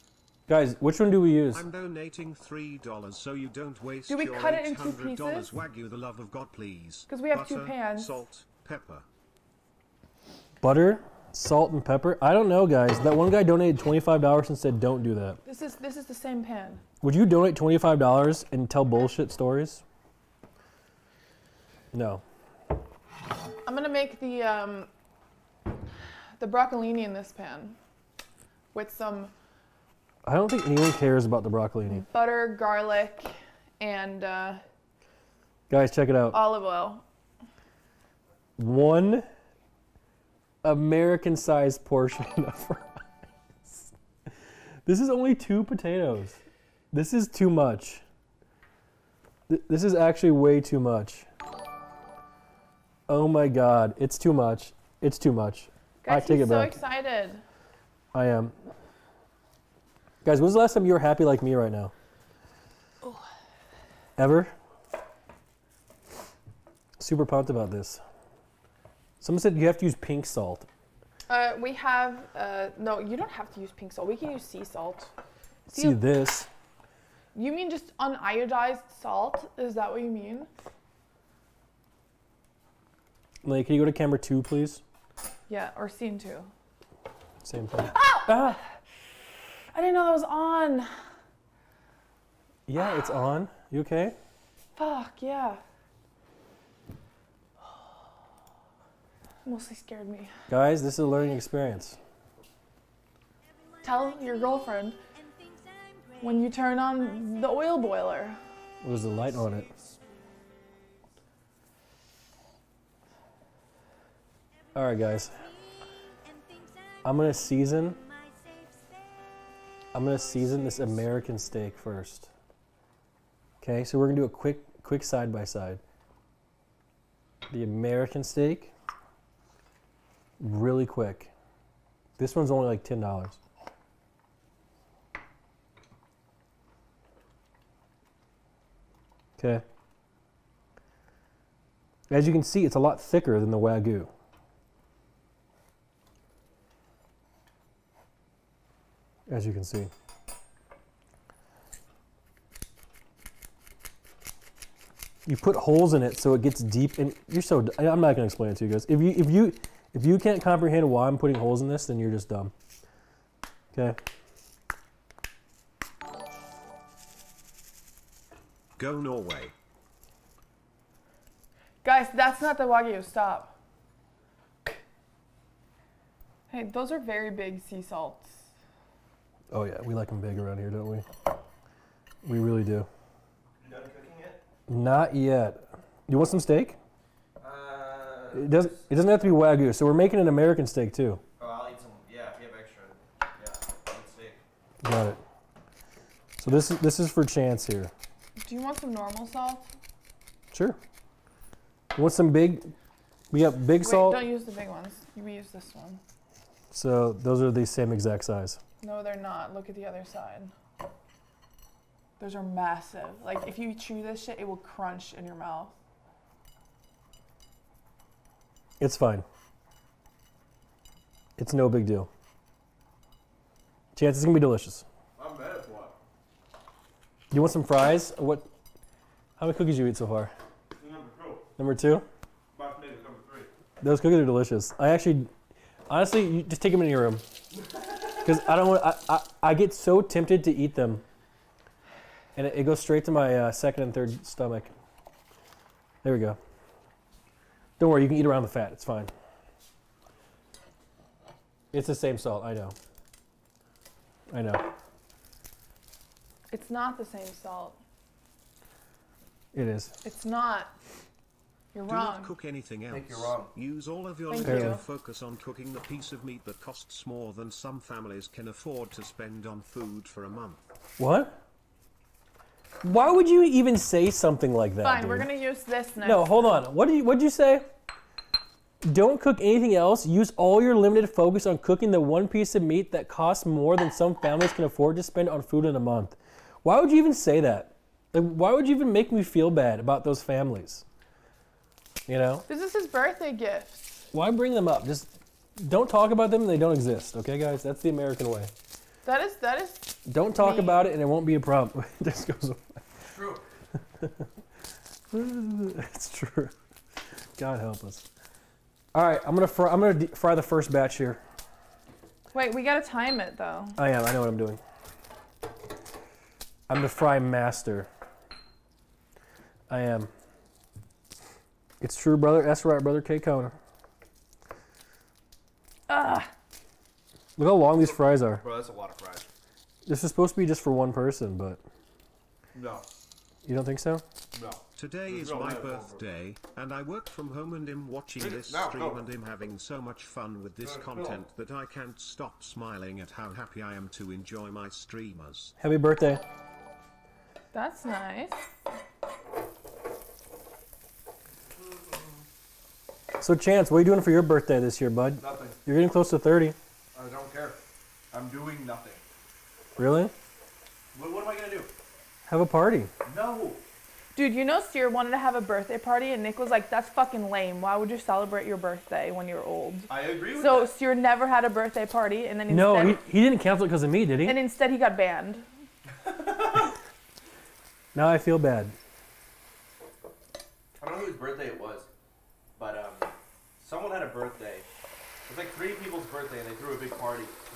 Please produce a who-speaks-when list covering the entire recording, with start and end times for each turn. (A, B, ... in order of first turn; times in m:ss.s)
0:00.5-0:01.6 A
0:01.5-0:09.1 B
0:04.1-0:05.5 C
0:07.1-0:08.2 C
0:10.6-0:15.4 A
0:15.4-0:16.8 C
0:17.0-0:19.8 A
0:21.9-0:22.2 A
0:23.6-0:24.9 C
0:26.4-0:27.8 C
0:28.7-0:29.3 C
0:30.2-0:32.0 A
0:32.0-0:34.6 C
0:35.7-0:36.4 A
0:36.3-0:37.0 C
0:38.6-0:39.3 A
0:40.6-0:43.0 A
0:43.6-0:43.9 A
0:44.8-0:46.4 A
0:46.9-0:48.0 A
0:49.5-0:51.3 A
0:53.1-0:56.7 A
0:56.0-0:57.4 C
0:58.1-0:58.6 A
1:00.2-1:01.9 A
1:04.2-1:04.5 A
1:07.0-1:08.0 A
1:09.2-1:10.7 A
1:11.3-1:15.1 C
1:15.7-1:16.0 C
1:15.7-1:16.5 A
1:17.3-1:20.5 C
1:23.4-1:24.8 A
1:25.5-1:26.5 C
1:27.4-1:28.6 A
1:27.9-1:28.6 C
1:29.7-1:31.0 C
1:32.7-1:34.2 A
1:34.8-1:35.6 C
1:39.4-1:40.3 C
1:40.5-1:42.0 A
1:43.8-1:45.0 C
1:46.2-1:48.4 C
1:48.8-1:49.7 A
1:54.8-1:55.5 A
1:57.0-1:58.0 A
1:59.9-2:02.3 A
2:03.6-2:05.8 A
2:07.5-2:08.7 A
2:10.4-2:11.3 A
2:12.2-2:13.4 A
2:19.4-2:19.6 A
2:22.1-2:24.1 A
2:29.3-2:29.9 A
2:35.3-2:42.5 A
2:48.8-2:49.5 B
2:51.8-2:53.6 C
2:56.5-2:58.5 C
2:59.5-3:01.1 A
3:02.2-3:02.9 A
3:03.6-3:04.4 D
3:04.7-3:06.8 A
3:07.4-3:08.8 D
3:08.3-3:11.2 A
3:11.4-3:14.4 D
3:14.8-3:15.2 A
3:16.4-3:17.9 A
3:18.4-3:19.7 C
3:20.5-3:20.8 A
3:21.9-3:22.7 A
3:23.3-3:24.2 A
3:23.8-3:26.0 C
3:26.7-3:28.6 A
3:28.8-3:30.5 C
3:32.2-3:35.8 C
3:38.8-3:39.2 A
3:41.4-3:42.1 A
3:44.0-3:44.8 A
3:45.2-3:46.0 D
3:47.3-3:48.5 A
3:49.4-3:50.3 A
3:50.8-3:51.4 D
3:51.6-3:52.1 A
3:52.5-3:53.5 D
3:53.8-3:55.3 A
3:55.9-3:57.2 A
3:57.5-3:58.3 D
3:58.2-4:01.0 A
4:02.4-4:04.7 A
4:06.0-4:06.4 A
4:07.8-4:09.1 A
4:11.7-4:12.8 A
4:14.3-4:14.7 A
4:16.5-4:17.8 C
4:19.5-4:19.9 A
4:20.0-4:20.7 C
4:21.7-4:22.3 C
4:21.9-4:30.6 B
4:22.9-4:23.5 D
4:24.3-4:24.8 C
4:24.4-4:24.8 A
4:31.0-4:31.4 A
4:32.8-4:35.3 A
4:34.8-4:36.6 C
4:36.0-4:37.7 A
4:38.8-4:50.8 A
4:52.1-4:52.5 A
4:52.5-4:54.1 C
4:54.1-4:58.5 A
4:59.0-5:00.9 C
5:00.1-5:02.9 A
5:03.1-5:03.4 D
5:04.0-5:04.3 A
5:05.1-5:06.5 A
5:07.4-5:08.0 A
5:08.9-5:11.2 A
5:12.3-5:13.8 C
5:13.8-5:14.6 A
5:16.7-5:17.9 A
5:19.7-5:20.1 A
5:21.8-5:23.6 A
5:25.9-5:26.3 C
5:27.4-5:28.4 A
5:27.8-5:29.3 D
5:29.9-5:31.6 A
5:32.5-5:32.8 D
5:33.4-5:34.0 A
5:34.3-5:36.0 D
5:34.8-5:45.6 B
5:38.2-5:39.0 D
5:40.6-5:41.2 D
5:45.6-5:46.2 A
5:47.5-5:48.4 C
5:51.5-5:52.2 D
5:53.2-5:56.6 A
5:55.2-5:55.6 D
5:56.9-5:59.0 D
5:59.8-6:00.1 A
6:00.9-6:01.7 D
6:02.3-6:02.9 A
6:03.0-6:03.6 D
6:04.2-6:13.0 C
6:09.9-6:10.7 D
6:12.5-6:14.4 A
6:14.2-6:15.5 C
6:16.0-6:16.7 D
6:18.0-6:18.8 A
6:20.8-6:21.9 D
6:22.6-6:24.7 D
6:25.2-6:27.4 D